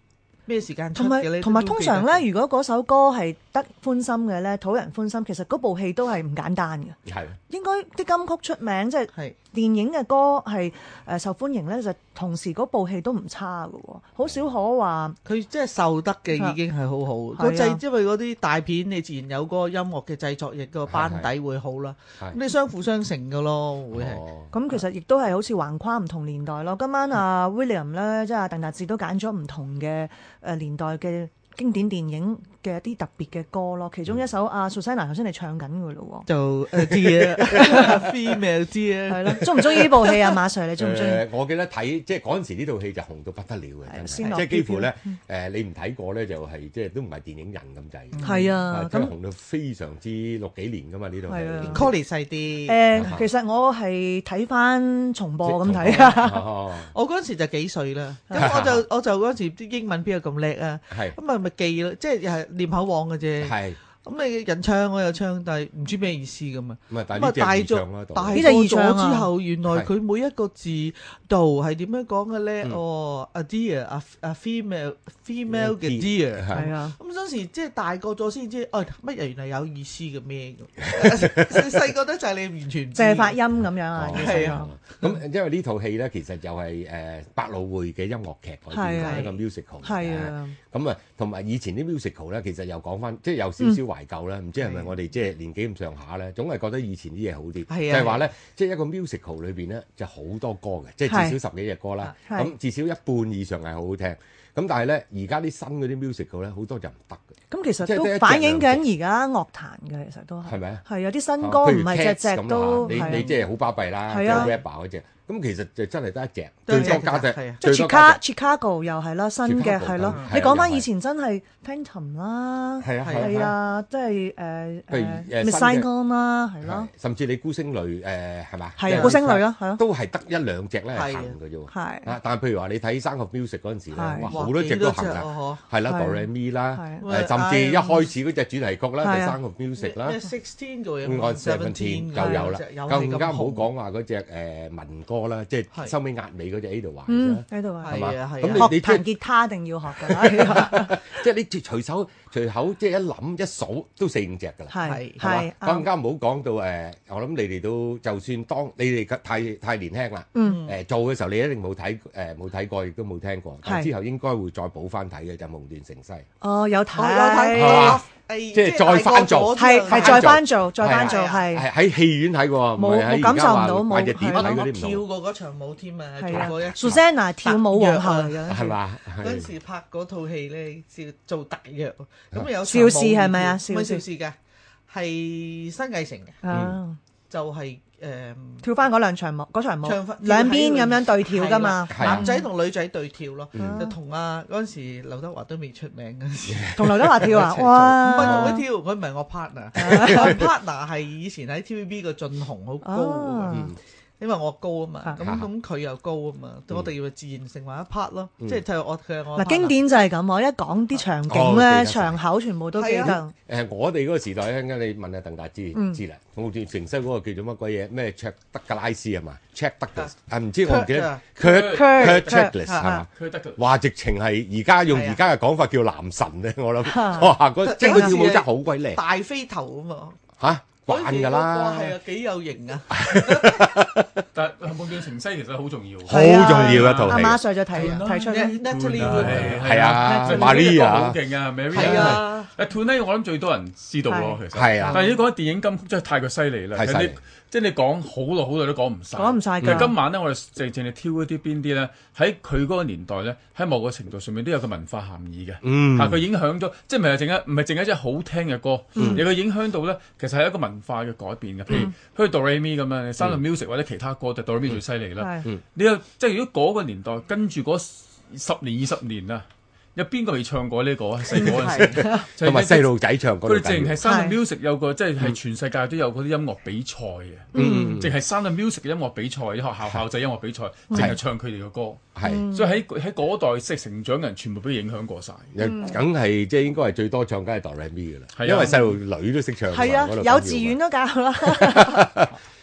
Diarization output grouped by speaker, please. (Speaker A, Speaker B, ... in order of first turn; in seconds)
Speaker A: 0.5-2.2, 15.2-24.2, 36.3-40.4, 48.1-48.5, 51.7-53.1, 55.9-56.2, 56.9-83.4, 84.1-85.1, 89.0-89.3, 94.6-94.9, 97.7-98.2, 112.8-113.5, 114.2-114.5, 116.7-117.6, 123.0-123.5, 128.9-129.4, 130.9-131.3, 134.3-135.6, 137.0-138.1, 139.8-143.7, 147.8-148.7, 154.8-155.5, 160.4-160.8, 166.9-171.5, 174.3-184.4, 184.9-186.4, 187.3-188.7, 189.8-203.7, 204.2-209.8, 212.8-213.2, 220.7-223.0, 224.9-225.2, 227.6-230.2, 230.9-233.7, 237.8-239.6, 241.8-242.5, 271.6-271.9
Speaker B: 1.0-7.0, 7.5-15.2, 17.4-17.8, 24.5-36.3, 37.5-38.0, 39.1-41.3, 43.9-45.1, 48.2-49.1, 51.3-51.9, 52.7-56.5, 68.3-69.3, 76.5-77.0, 83.0-84.7, 88.7-89.3, 89.8-90.6, 101.1-101.4, 102.2-102.5, 107.5-113.2, 114.1-114.5, 116.7-117.0, 117.6-126.9, 128.8-129.8, 131.7-132.1, 133.9-134.3, 135.9-137.1, 139.0-139.4, 142.2-142.5, 147.1-148.0, 148.5-151.1, 154.7-155.9, 160.3-160.6, 163.7-163.9, 166.4-168.0, 169.6-171.7, 172.8-174.6, 176.2-178.5, 182.6-184.0, 186.4-187.0, 188.6-192.5, 193.6-194.0, 196.7-198.7, 199.8-200.5, 202.8-203.7, 209.4-213.3, 215.8-216.0, 221.4-223.0, 226.9-228.2, 236.1-238.6, 239.8-240.7, 244.1-245.0, 249.2-249.9, 259.0-259.2, 265.2-265.5, 274.0-274.4, 277.5-278.0, 282.2-282.8, 285.6-286.0, 289.7-292.1
Speaker C: 7.1-7.4, 20.9-21.3, 23.9-24.5, 37.5-38.1, 40.8-51.9, 53.0-53.3, 55.4-56.9, 58.4-58.9, 60.9-61.2, 63.4-63.8, 66.9-68.5, 75.5-76.6, 80.9-81.8, 84.0-107.3, 107.8-108.9, 110.5-110.8, 111.4-118.2, 119.4-120.9, 122.8-123.5, 124.9-125.9, 126.6-140.2, 141.0-149.1, 149.9-166.2, 167.5-175.1, 176.3-177.0, 178.5-179.5, 186.5-186.8, 191.9-192.3, 193.6-193.9, 196.5-197.4, 198.2-198.6, 199.8-200.5, 203.5-203.8, 205.2-205.5, 211.3-212.2, 213.5-229.0, 230.4-232.0, 232.9-234.2, 236.1-237.4, 239.0-241.2, 241.7-242.2, 244.5-245.0, 246.8-247.2, 249.6-249.9, 255.6-256.2, 259.0-259.2, 271.4-274.0, 277.5-278.2, 280.9-281.2, 282.2-282.5, 285.5-290.8, 291.4-292.3
Speaker D: 221.4-222.1, 223.1-223.6, 234.3-272.9, 273.4-285.6, 288.4-289.0